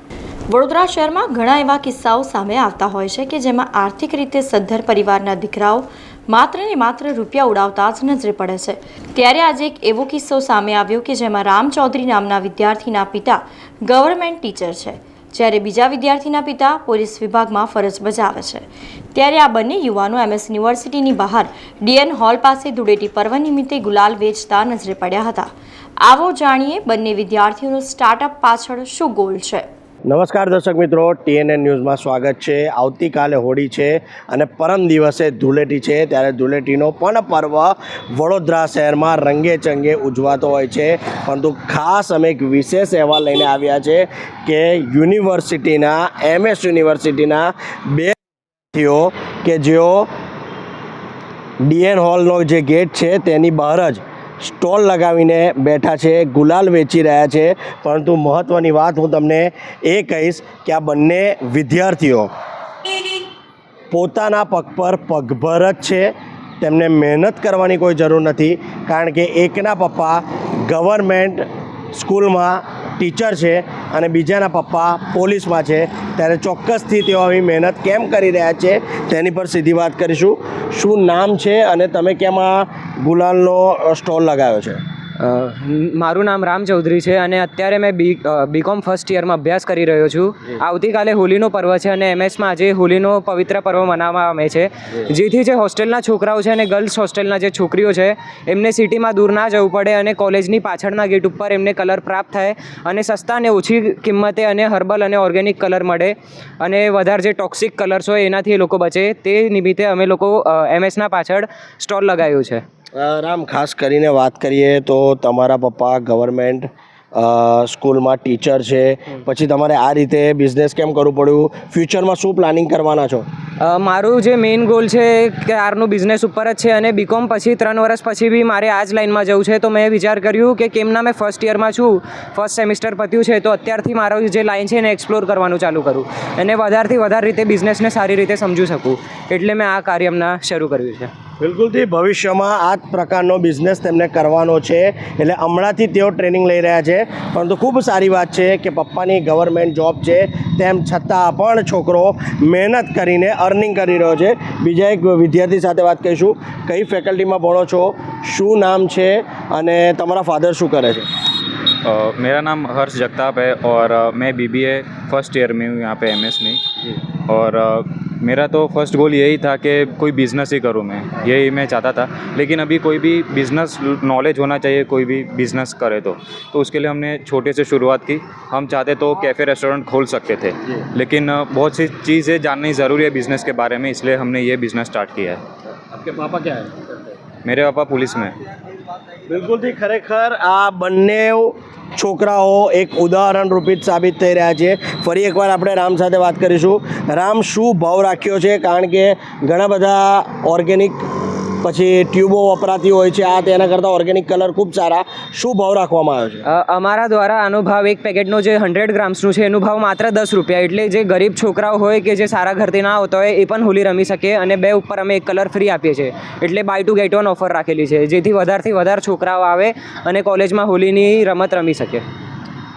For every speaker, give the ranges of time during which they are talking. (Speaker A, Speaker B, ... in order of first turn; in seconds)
Speaker A: 0.5-25.5, 26.0-29.7
Speaker B: 30.1-48.1, 48.7-50.1, 51.6-62.3, 63.9-84.8, 113.0-123.3, 141.4-161.1, 185.9-187.0, 189.3-201.1, 201.6-206.4
Speaker C: 85.2-112.6, 123.7-141.1, 206.5-222.0
Speaker D: 161.8-166.6, 167.3-185.4, 187.4-188.4